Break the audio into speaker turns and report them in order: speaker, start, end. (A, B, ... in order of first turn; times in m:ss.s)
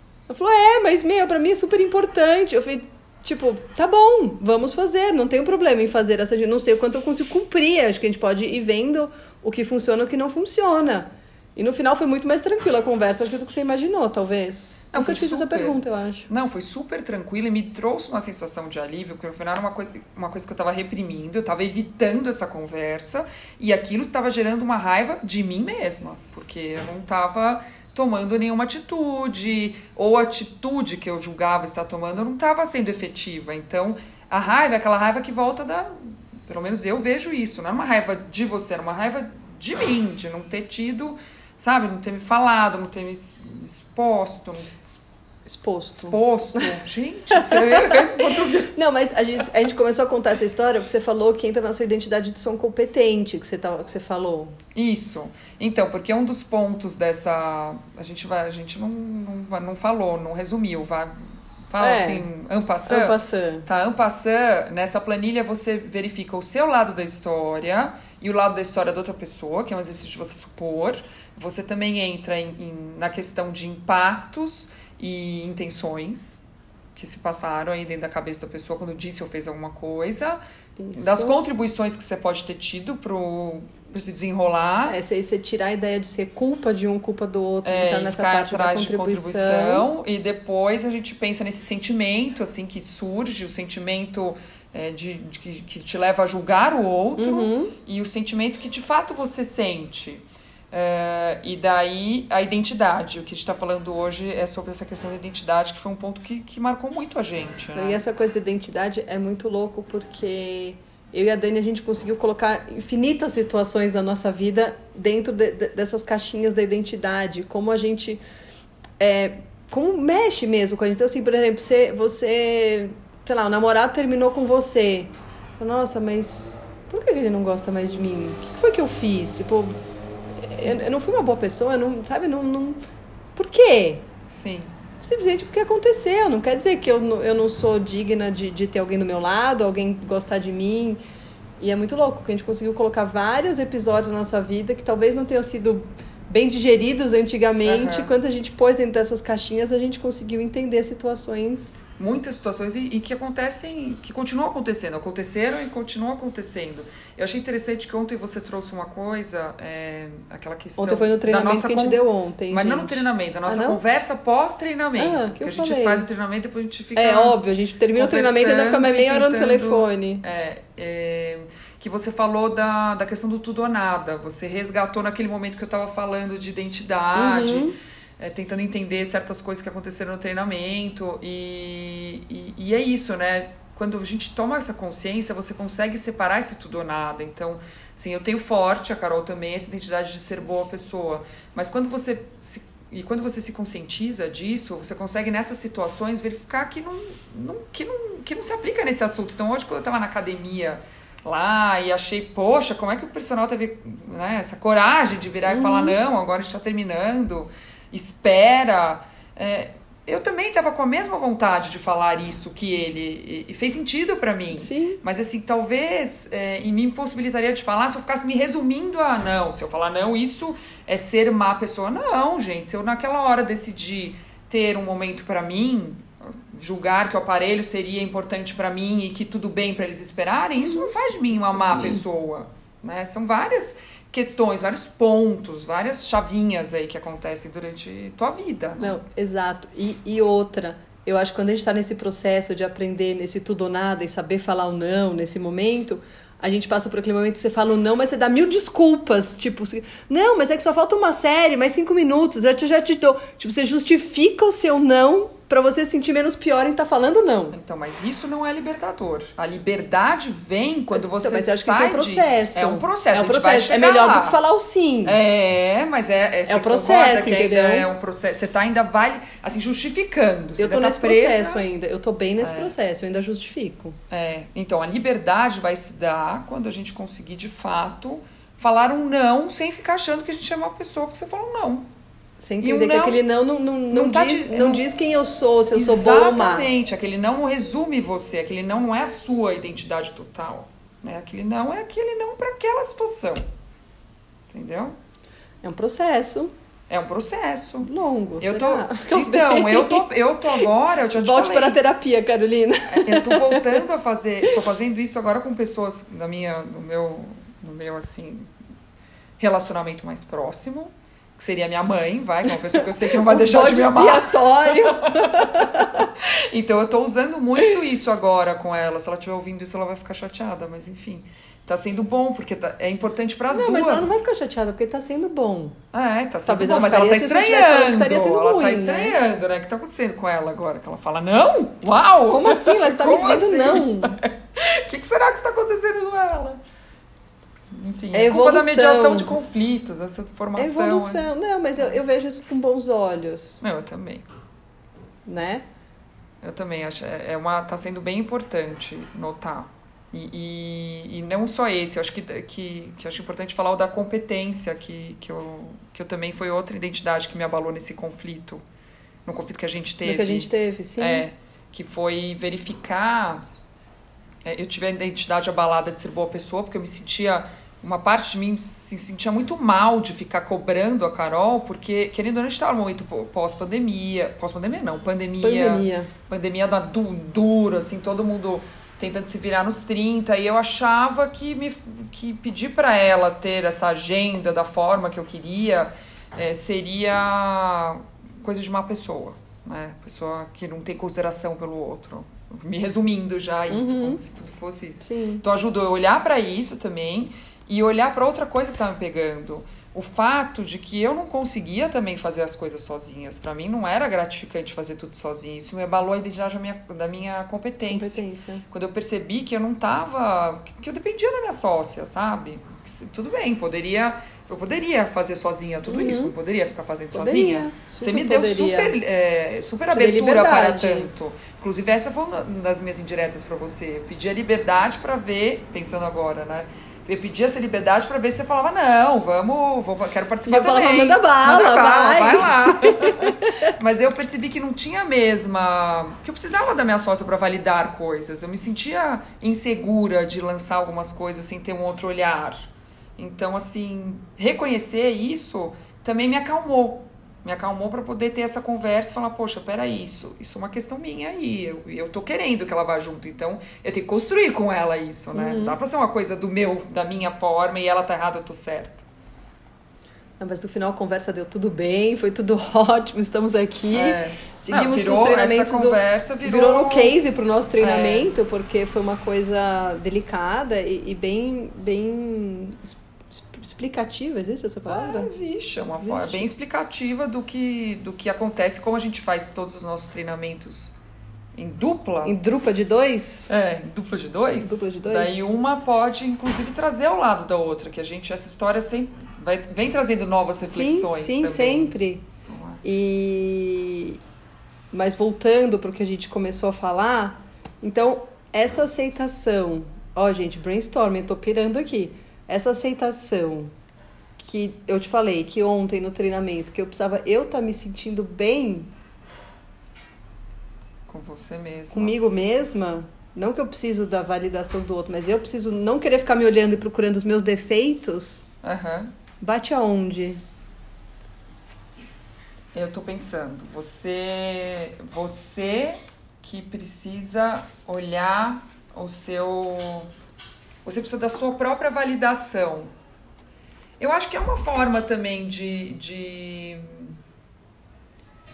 0:00.3-0:16.3 A
0:14.9-0:35.9 B
0:36.5-0:44.7 B
0:45.5-0:46.7 A
0:46.0-0:48.7 B
0:47.3-0:54.6 A
0:54.8-1:01.2 B
1:01.7-1:16.4 B
1:01.8-1:02.3 A
1:02.9-1:03.7 A
1:17.0-1:20.4 B
1:20.8-1:21.4 A
1:20.9-1:25.0 B
1:24.8-1:29.9 A
1:27.6-1:48.0 B
1:37.2-1:37.7 A
1:47.8-1:58.2 A
1:59.0-2:09.8 A
2:10.4-2:12.8 A
2:13.4-2:14.1 A
2:14.3-2:14.8 B
2:15.0-2:21.0 A
2:21.6-2:31.7 A
2:27.6-2:28.1 B
2:32.0-2:47.4 B
2:40.8-2:43.8 A
2:45.0-2:46.0 A
2:47.0-2:50.2 A
2:48.0-3:59.0 B
2:57.2-2:57.8 A
3:25.5-3:26.0 A
3:34.6-3:35.0 A
3:58.8-4:17.6 A
4:17.5-4:24.4 B
4:20.9-4:25.2 A
4:25.0-4:31.6 B
4:26.5-4:27.9 A
4:30.6-4:34.0 A
4:32.4-4:32.7 B
4:34.1-4:41.9 B
4:42.4-4:46.7 A
4:42.6-4:43.2 B
4:43.9-4:44.8 B
4:45.7-4:53.4 B
4:54.5-4:54.9 B
4:55.6-4:56.5 A
4:56.9-5:01.8 B
4:57.8-5:03.8 A
5:02.9-5:08.5 B
5:09.4-5:24.2 B
5:12.7-5:16.1 A
5:23.5-5:25.8 A
5:25.9-5:36.6 B
5:26.4-5:29.2 A
5:32.3-5:34.2 A
5:37.7-5:41.3 B
5:38.1-5:39.4 A
5:40.6-5:43.6 A
5:43.6-5:44.3 B
5:45.3-5:45.6 A
5:46.4-5:58.6 B
5:59.2-6:03.4 B
6:00.0-6:01.3 A
6:04.4-7:39.0 B
6:15.4-6:16.1 A
6:33.7-6:34.2 A
6:35.0-6:35.4 A
6:47.9-6:48.6 A
6:55.9-6:56.3 A
6:57.1-6:59.0 A
6:59.9-7:01.1 A
7:10.5-7:13.7 A
7:35.3-7:35.8 A
7:40.4-7:55.3 A
7:43.9-7:47.2 B
7:47.8-7:48.3 B
7:54.9-8:00.9 B
7:56.0-7:56.5 A
8:01.6-8:02.4 B
8:02.2-8:03.5 A
8:03.5-8:12.0 B
8:04.6-8:05.5 A
8:10.6-8:12.2 A
8:12.5-8:12.8 B
8:12.8-8:14.2 A
8:14.9-8:23.7 A
8:24.4-8:28.9 A
8:31.1-8:32.2 B
8:31.9-8:38.5 A
8:38.6-8:39.1 B
8:39.4-8:40.4 A
8:42.7-8:50.1 B
8:50.8-8:52.9 B
8:54.0-8:57.2 B